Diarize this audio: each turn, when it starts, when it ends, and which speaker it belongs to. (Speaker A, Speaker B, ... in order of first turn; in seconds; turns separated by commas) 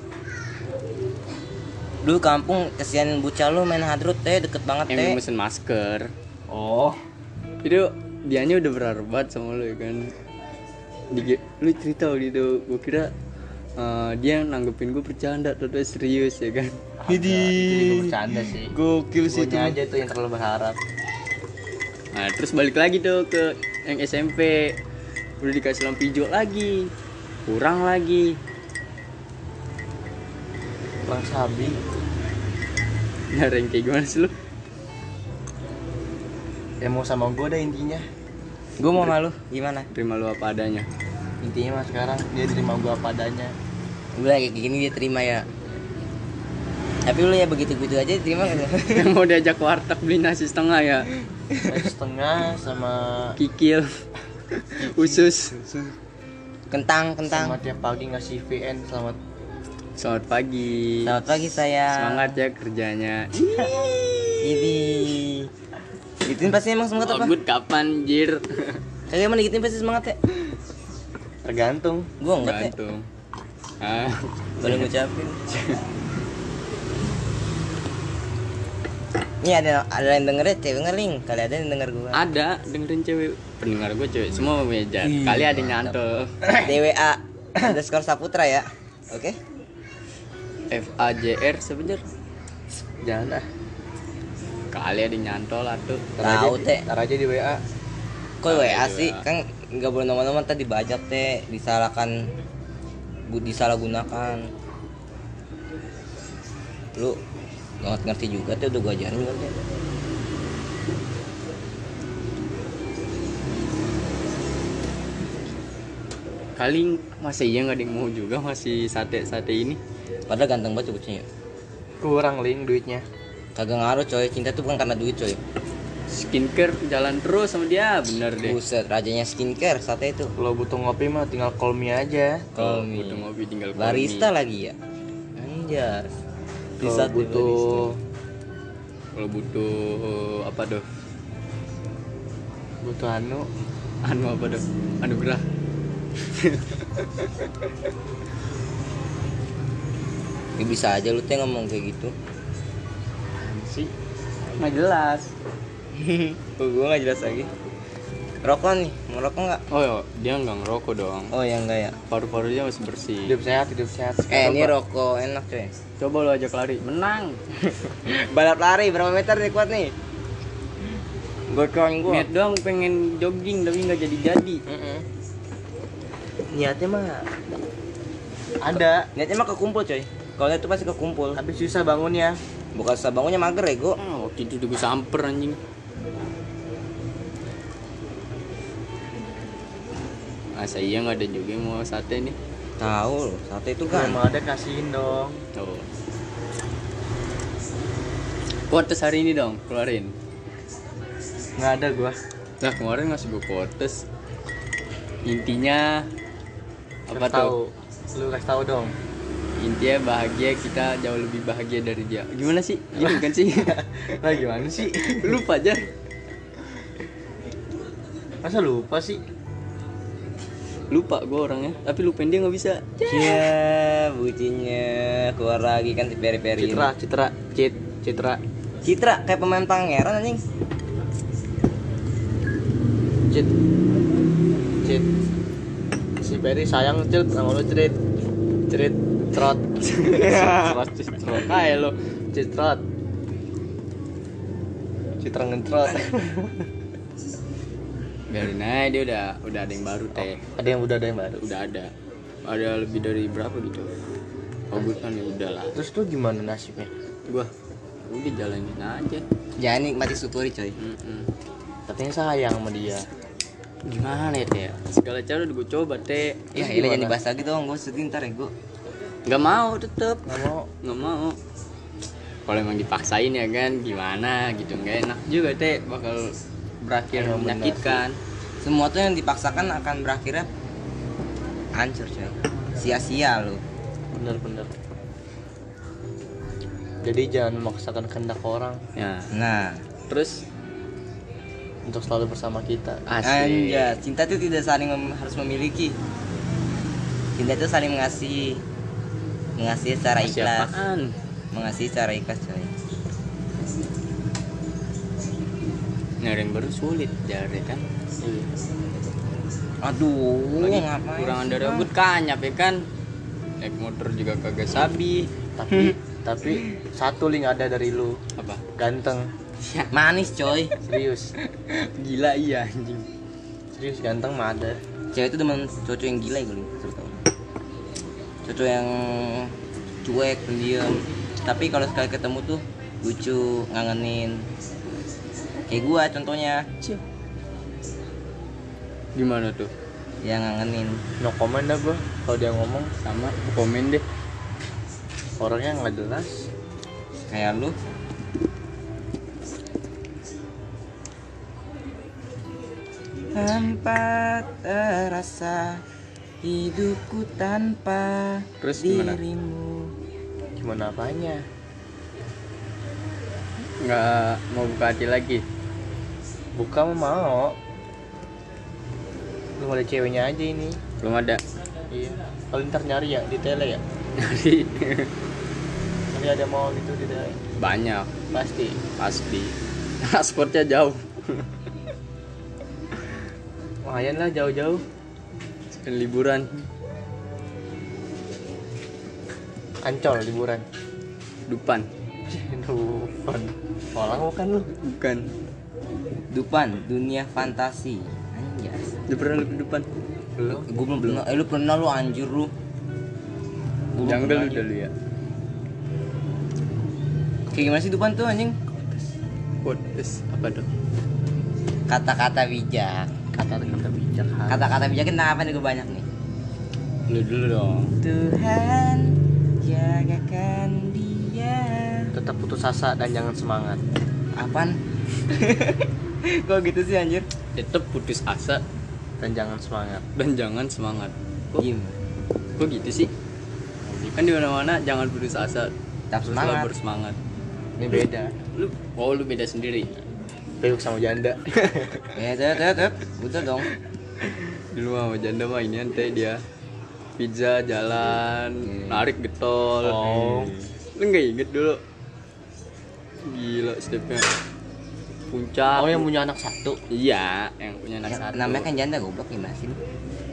Speaker A: 2.0-5.2, Speaker B: 4.9-6.1, Speaker C: 6.5-7.0, Speaker B: 7.6-10.1, Speaker B: 11.1-13.1, Speaker B: 13.8-16.8, Speaker C: 17.0-20.8, Speaker A: 17.1-18.6, Speaker A: 19.1-19.8, Speaker B: 22.1-24.8, Speaker B: 25.4-26.9, Speaker B: 27.4-28.4, Speaker C: 31.1-31.8, Speaker B: 33.3-34.3, Speaker C: 36.8-38.0, Speaker A: 38.8-39.9, Speaker B: 39.9-40.9, Speaker C: 41.4-43.5, Speaker A: 44.1-45.4, Speaker A: 47.0-49.1, Speaker B: 49.0-51.1, Speaker A: 51.5-51.8, Speaker C: 51.6-53.4, Speaker B: 53.4-53.9, Speaker B: 54.5-55.6, Speaker C: 54.8-56.0, Speaker A: 56.7-57.6, Speaker C: 57.3-59.2, Speaker B: 60.0-61.1, Speaker A: 61.0-62.4, Speaker B: 61.9-64.4, Speaker A: 64.4-65.5, Speaker A: 66.2-67.3, Speaker B: 67.0-68.8, Speaker A: 69.1-70.2, Speaker C: 71.4-72.1, Speaker A: 72.2-72.7, Speaker B: 72.4-73.0, Speaker B: 73.8-74.9, Speaker A: 74.6-75.4, Speaker B: 75.5-75.8, Speaker A: 79.4-82.2, Speaker B: 82.1-86.5, Speaker A: 85.0-85.9, Speaker A: 86.5-89.4, Speaker B: 90.7-92.0, Speaker C: 93.0-93.5, Speaker B: 94.7-96.1, Speaker C: 96.2-97.6, Speaker A: 96.2-96.9, Speaker A: 98.4-102.1, Speaker B: 98.5-99.2, Speaker A: 103.3-104.4, Speaker A: 107.8-109.5, Speaker B: 116.5-119.8, Speaker A: 120.3-121.2, Speaker C: 122.0-123.1, Speaker A: 123.5-125.4, Speaker B: 126.1-128.6, Speaker A: 128.4-130.3, Speaker C: 130.4-132.6, Speaker A: 132.5-134.8, Speaker B: 132.6-134.3, Speaker A: 135.4-136.2, Speaker A: 136.8-137.9, Speaker C: 136.8-138.0, Speaker B: 139.2-140.8, Speaker C: 142.8-143.5, Speaker B: 144.0-145.4, Speaker B: 146.3-147.3, Speaker A: 150.6-152.1, Speaker C: 153.4-153.9, Speaker B: 154.6-155.3, Speaker A: 155.9-157.5, Speaker A: 158.4-159.6, Speaker B: 159.7-161.3, Speaker A: 161.3-162.0, Speaker B: 162.1-163.3, Speaker C: 163.2-164.7, Speaker A: 164.3-165.7, Speaker B: 166.0-167.4, Speaker A: 167.7-169.9, Speaker A: 171.5-172.3, Speaker B: 172.1-174.6, Speaker C: 174.7-175.0, Speaker C: 176.5-177.2, Speaker C: 178.6-179.1, Speaker A: 178.7-181.4, Speaker C: 181.3-182.4, Speaker A: 182.7-184.0, Speaker B: 184.0-185.6, Speaker B: 190.5-192.3, Speaker A: 192.8-194.2, Speaker C: 193.9-195.4, Speaker B: 195.5-195.9, Speaker B: 198.7-200.1, Speaker C: 201.6-202.2, Speaker B: 202.6-204.0, Speaker B: 205.2-206.1, Speaker B: 207.1-207.5, Speaker C: 207.1-208.9, Speaker B: 209.6-213.8, Speaker C: 213.0-215.4, Speaker B: 215.2-215.9, Speaker C: 218.4-219.2, Speaker B: 220.9-223.5, Speaker A: 223.1-226.9, Speaker C: 226.6-228.4, Speaker A: 228.8-230.4, Speaker C: 233.3-233.5, Speaker C: 236.2-238.0, Speaker C: 238.7-241.7, Speaker B: 239.8-241.9, Speaker C: 242.3-242.8, Speaker C: 245.2-246.6, Speaker B: 248.3-250.4, Speaker C: 250.2-251.4, Speaker B: 251.4-251.9, Speaker B: 252.4-253.9, Speaker B: 254.7-255.8, Speaker C: 255.7-256.9, Speaker B: 258.1-259.2, Speaker A: 259.6-260.8, Speaker B: 260.8-261.3, Speaker C: 261.9-263.1, Speaker B: 263.9-266.4, Speaker A: 266.5-268.5, Speaker C: 266.5-267.2, Speaker B: 269.2-271.4, Speaker C: 270.2-270.7, Speaker B: 272.5-278.1, Speaker C: 277.1-278.0, Speaker A: 278.6-280.5, Speaker A: 281.8-283.6, Speaker C: 284.1-284.7, Speaker C: 287.0-288.8, Speaker B: 288.9-289.3, Speaker A: 289.3-289.8, Speaker B: 290.1-290.4, Speaker C: 291.9-293.0, Speaker B: 293.1-294.0, Speaker A: 293.2-296.0, Speaker A: 297.4-298.6, Speaker A: 299.6-300.8, Speaker B: 300.2-301.1, Speaker A: 301.5-302.7, Speaker B: 306.2-307.9, Speaker C: 308.2-308.5, Speaker A: 309.8-311.9, Speaker B: 310.6-312.8, Speaker B: 313.6-315.3, Speaker C: 315.5-318.2, Speaker A: 315.7-315.9, Speaker B: 318.4-318.6, Speaker C: 318.7-319.3, Speaker B: 319.6-319.9, Speaker A: 319.9-320.8, Speaker C: 320.8-321.3, Speaker B: 321.7-323.1, Speaker C: 323.7-324.8, Speaker A: 325.1-327.2, Speaker A: 328.4-334.5, Speaker A: 335.7-336.6, Speaker B: 339.1-339.7, Speaker A: 340.2-341.0, Speaker C: 341.2-342.9, Speaker B: 343.0-344.0, Speaker C: 345.4-346.5, Speaker A: 347.3-347.7, Speaker A: 353.3-355.8, Speaker A: 356.4-359.9, Speaker B: 358.6-359.2, Speaker C: 360.6-361.4, Speaker B: 363.8-365.4, Speaker C: 366.6-367.6, Speaker C: 369.6-370.8, Speaker B: 371.0-371.4, Speaker C: 371.9-373.8, Speaker B: 374.2-375.1, Speaker C: 376.1-377.4, Speaker B: 377.6-378.1, Speaker C: 378.3-378.8, Speaker B: 378.9-381.5, Speaker C: 383.8-384.8, Speaker B: 385.8-386.7, Speaker C: 389.8-390.6, Speaker B: 391.5-391.9, Speaker C: 392.3-394.7, Speaker B: 394.8-395.3, Speaker A: 396.3-399.0, Speaker B: 399.1-399.9, Speaker C: 400.4-400.7, Speaker A: 400.5-402.5, Speaker A: 403.9-404.6, Speaker B: 404.0-404.9, Speaker A: 407.5-408.6, Speaker B: 409.6-410.6, Speaker A: 411.9-413.1, Speaker C: 413.3-414.8, Speaker A: 414.5-416.1, Speaker B: 417.1-417.9, Speaker A: 418.0-422.1, Speaker C: 422.1-423.8, Speaker A: 424.4-427.3, Speaker B: 427.5-428.6, Speaker C: 429.2-430.0, Speaker B: 430.1-431.6, Speaker A: 431.6-432.0, Speaker B: 432.6-433.1, Speaker B: 434.0-435.7, Speaker A: 436.1-436.7, Speaker B: 436.4-437.2, Speaker C: 437.8-438.3, Speaker B: 438.5-439.9, Speaker C: 440.6-442.2, Speaker A: 442.1-443.7, Speaker B: 444.7-446.4, Speaker B: 447.2-450.4, Speaker A: 448.7-449.0, Speaker C: 449.8-450.6, Speaker B: 450.9-451.8, Speaker B: 453.2-454.2, Speaker B: 455.3-456.1, Speaker C: 455.7-456.8, Speaker B: 456.9-458.7, Speaker A: 458.0-459.8, Speaker C: 458.2-458.6